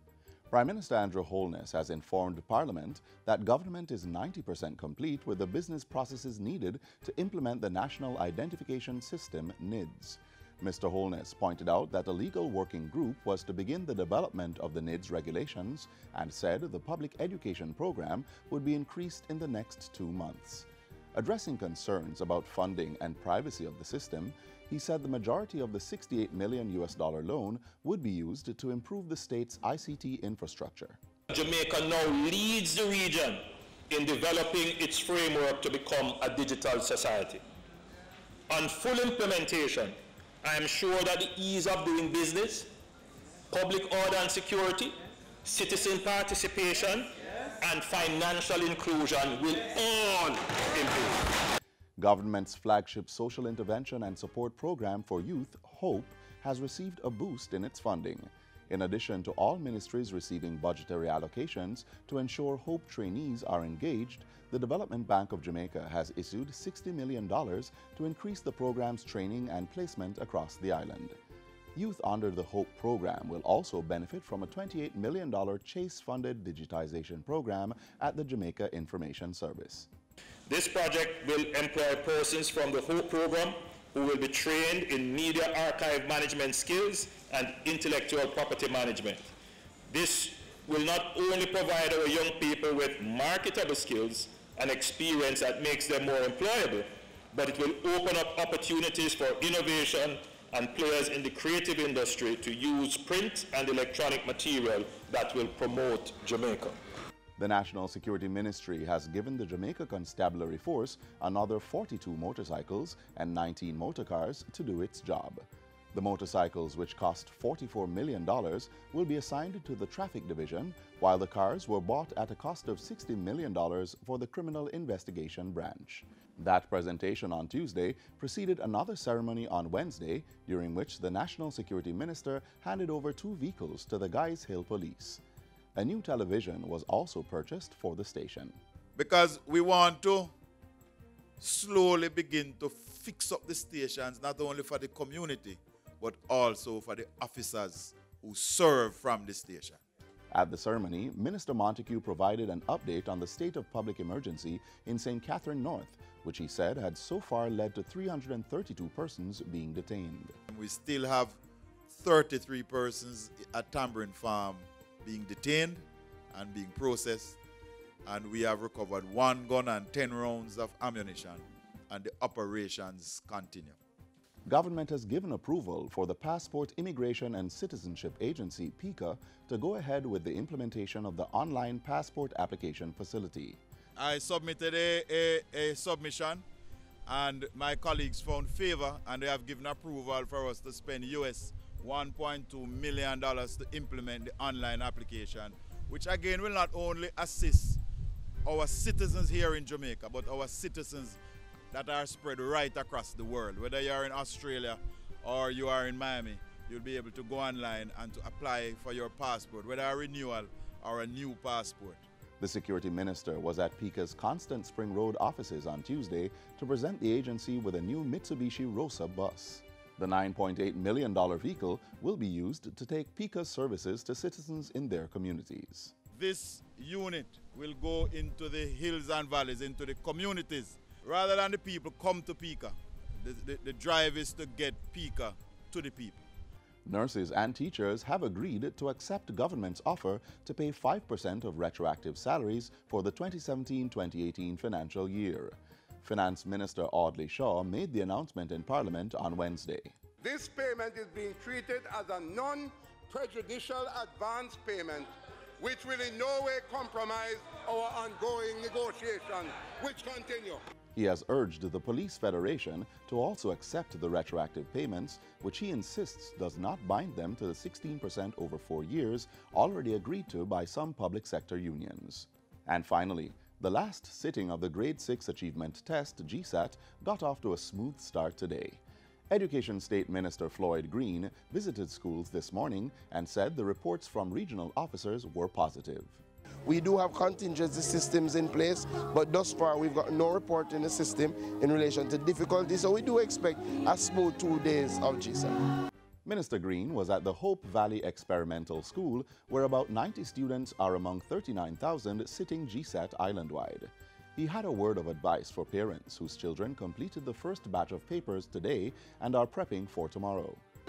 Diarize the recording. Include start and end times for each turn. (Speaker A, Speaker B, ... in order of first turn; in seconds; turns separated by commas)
Speaker A: 0.5-31.0, Speaker B: 31.3-37.4, Speaker B: 38.5-42.7, Speaker B: 43.5-51.2, Speaker A: 52.0-71.2, Speaker A: 71.8-79.9, Speaker B: 80.5-89.3, Speaker B: 89.9-106.8, Speaker A: 107.4-135.2, Speaker A: 135.8-138.6, Speaker C: 139.0-140.3, Speaker C: 141.4-149.8, Speaker A: 150.3-160.4, Speaker C: 160.5-161.4, Speaker C: 161.9-167.4, Speaker C: 168.1-173.8, Speaker A: 174.5-183.6, Speaker C: 184.0-186.4, Speaker C: 187.1-197.8, Speaker C: 198.4-201.2, Speaker C: 201.7-212.1, Speaker A: 212.4-225.9, Speaker C: 226.1-236.2, Speaker A: 236.8-249.9, Speaker D: 250.2-260.6, Speaker A: 260.9-286.2, Speaker E: 286.7-295.6, Speaker A: 296.2-310.6